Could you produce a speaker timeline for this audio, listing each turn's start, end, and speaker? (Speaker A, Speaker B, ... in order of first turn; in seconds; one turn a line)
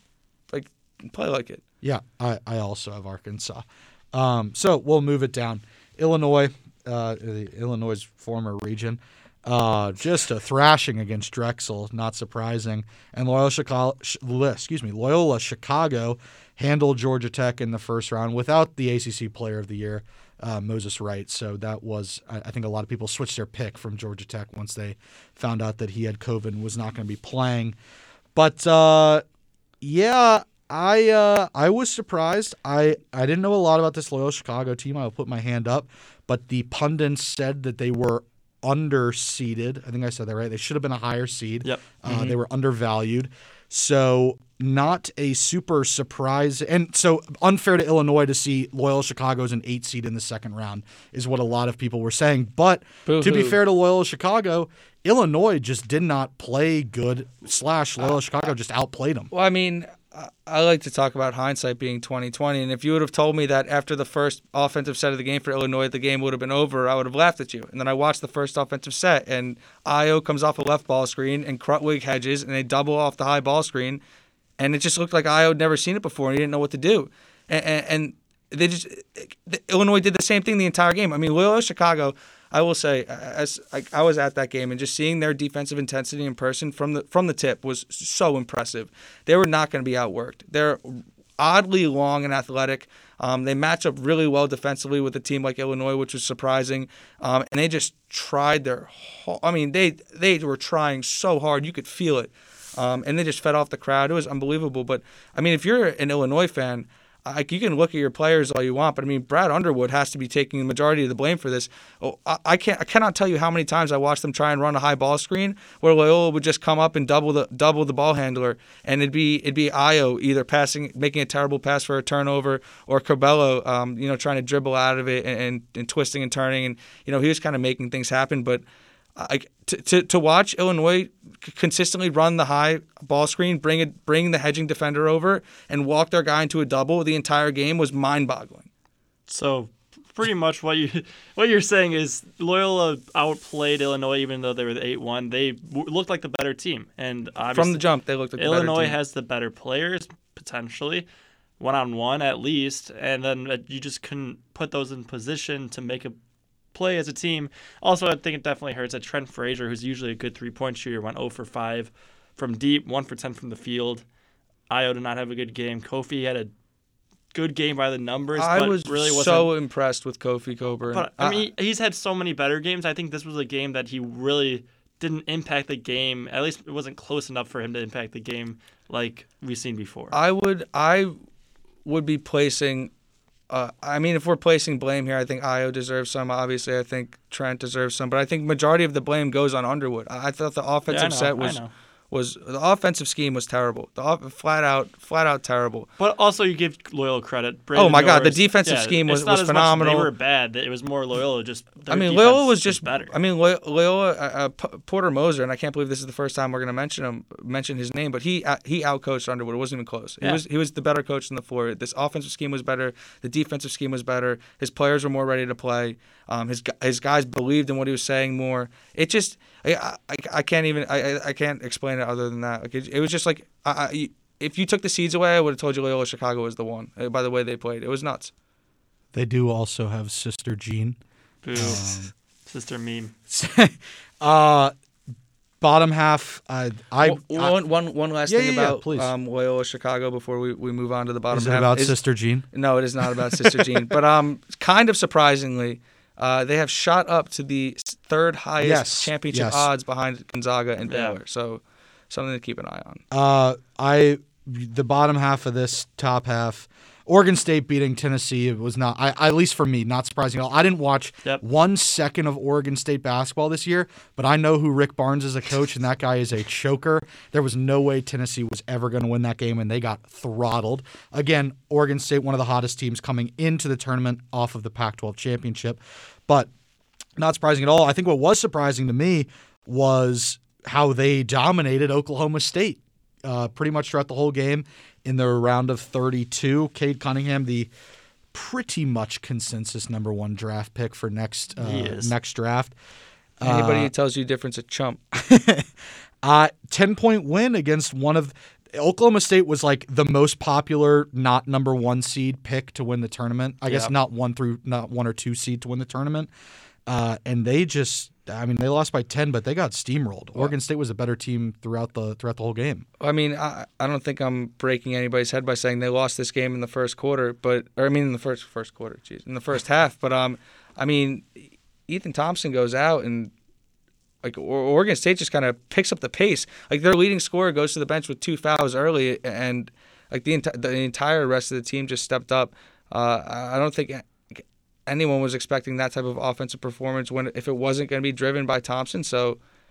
Speaker A: 0.5-1.6
Speaker B: 1.8-27.8
Speaker B: 28.4-29.2
Speaker B: 29.8-59.3
Speaker C: 41.6-42.4
Speaker A: 53.1-53.6
Speaker A: 59.3-74.0
Speaker A: 74.6-128.6
Speaker A: 129.2-138.7
Speaker C: 139.3-147.8
Speaker A: 147.5-148.9
Speaker C: 148.4-151.1
Speaker C: 151.6-156.2
Speaker C: 156.7-164.0
Speaker C: 164.7-166.5
Speaker C: 167.3-169.5
Speaker A: 168.4-171.5
Speaker C: 170.9-180.2
Speaker A: 180.1-181.2
Speaker A: 181.8-182.9
Speaker A: 183.5-195.9
Speaker C: 190.9-191.7
Speaker C: 196.0-203.1
Speaker A: 197.8-200.1
Speaker A: 201.9-228.3
Speaker B: 229.1-231.0
Speaker C: 231.4-233.1
Speaker B: 231.5-232.1
Speaker B: 233.3-234.7
Speaker B: 235.6-237.6
Speaker A: 237.0-242.0
Speaker B: 238.3-239.1
Speaker B: 241.3-242.5
Speaker A: 242.5-253.0
Speaker B: 243.0-243.8
Speaker B: 248.6-249.7
Speaker C: 250.9-251.2
Speaker B: 253.1-276.5
Speaker B: 277.2-287.7
Speaker B: 288.3-292.7
Speaker C: 291.6-292.1
Speaker B: 293.4-293.9
Speaker A: 293.4-295.0
Speaker B: 295.1-295.7
Speaker B: 296.2-306.3
Speaker A: 303.7-303.9
Speaker B: 306.9-312.9
Speaker A: 313.0-323.3
Speaker A: 324.2-339.4